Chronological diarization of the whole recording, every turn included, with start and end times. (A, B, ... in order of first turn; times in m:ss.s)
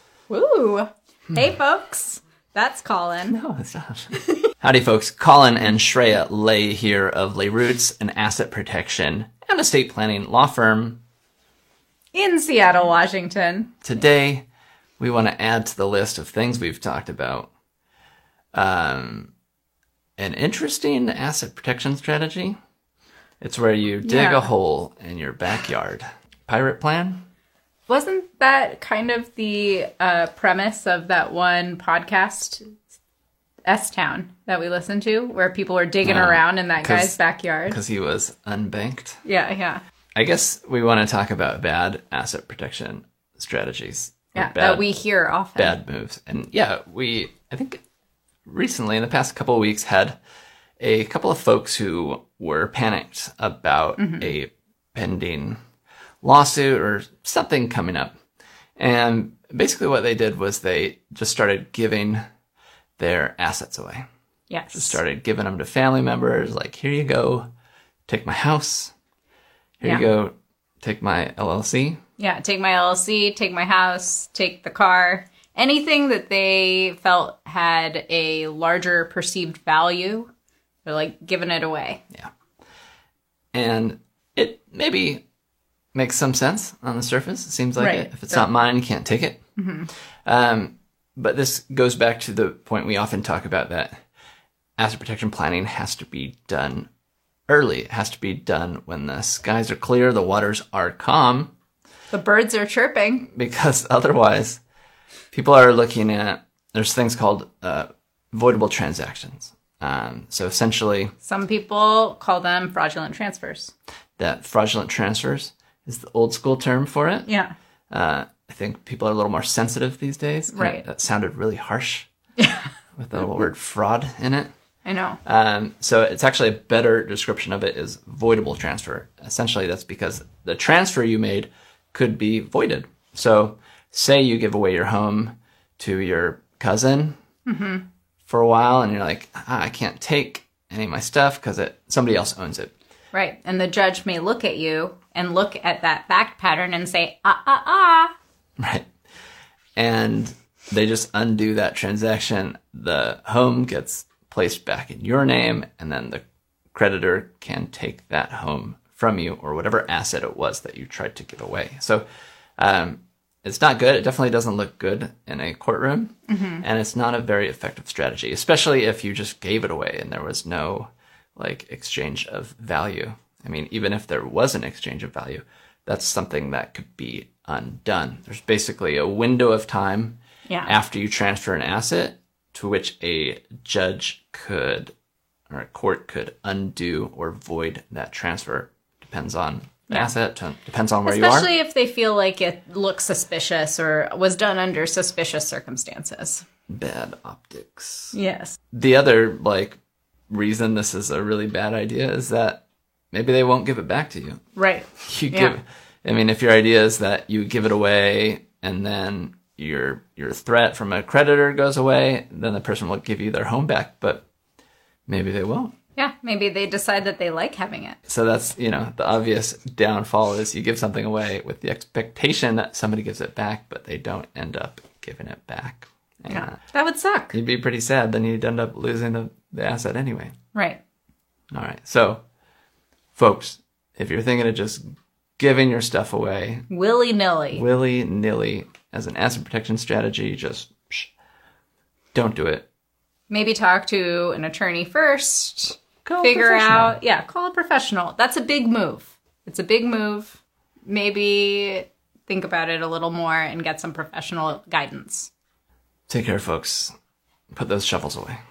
0:00.3-0:03.4 A
0:03.3-0:11.0 B
0:12.1-0:13.7 A
0:13.8-0:14.5 B
0:15.0-0:17.5 B
0:18.5-0:19.3 B
0:20.2-0:22.6 B
0:23.4-0:27.2 B
0:24.0-0:24.5 A
0:27.9-0:32.8 A
0:33.7-0:37.8 A
0:36.0-0:39.2 B
0:39.2-0:39.8 A
0:40.2-0:44.9 B
0:44.4-0:45.8 A
0:45.6-0:47.8 B
0:48.5-0:50.2 B
0:50.8-0:55.6 B
0:54.0-0:54.3 A
0:56.2-0:58.2 B
0:58.8-1:02.2 B
1:03.0-1:04.1 B
1:04.5-1:05.0 A
1:04.7-1:07.5 B
1:08.1-1:08.9 B
1:09.8-1:12.0 B
1:12.2-1:20.3 A
1:20.8-1:22.0 A
1:23.5-1:25.2 B
1:25.9-1:29.4 B
1:27.8-1:28.5 A
1:29.6-1:29.9 A
1:30.3-1:34.0 B
1:34.8-1:36.9 B
1:37.5-1:41.5 B
1:42.1-1:43.3 A
1:43.3-1:44.6 B
1:45.3-1:51.1 B
1:51.2-1:53.7 A
1:54.2-1:57.3 B
1:57.3-1:57.5 A
1:57.9-2:02.1 B
2:00.5-2:00.8 A
2:02.4-2:02.7 A
2:03.0-2:04.5 B
2:04.8-2:05.2 A
2:05.2-2:17.2 B
2:17.5-2:17.8 A
2:18.3-2:22.7 B
2:23.1-2:28.1 A
2:28.6-2:28.9 B
2:29.8-2:36.2 B
2:36.7-2:42.0 B
2:42.6-3:04.9 B
2:46.3-2:46.6 A
3:00.5-3:00.7 A
3:05.5-3:11.5 B
3:11.0-3:16.4 A
3:16.7-3:18.2 B
3:18.1-3:18.6 A
3:18.7-3:19.8 B
3:20.3-3:24.4 B
3:24.6-3:25.6 A
3:25.0-3:34.2 B
3:35.1-3:35.7 B
3:36.0-3:38.0 A
3:38.1-3:46.6 B
3:46.3-3:47.4 A
3:47.3-3:50.3 B
3:50.5-3:50.8 A
3:51.5-3:52.2 B
3:53.2-3:56.7 B
3:56.7-3:57.6 A
3:57.5-4:01.1 B
4:02.1-4:02.7 B
4:03.3-4:15.3 A
4:06.0-4:07.0 B
4:16.1-4:16.9 B
4:17.5-4:18.4 B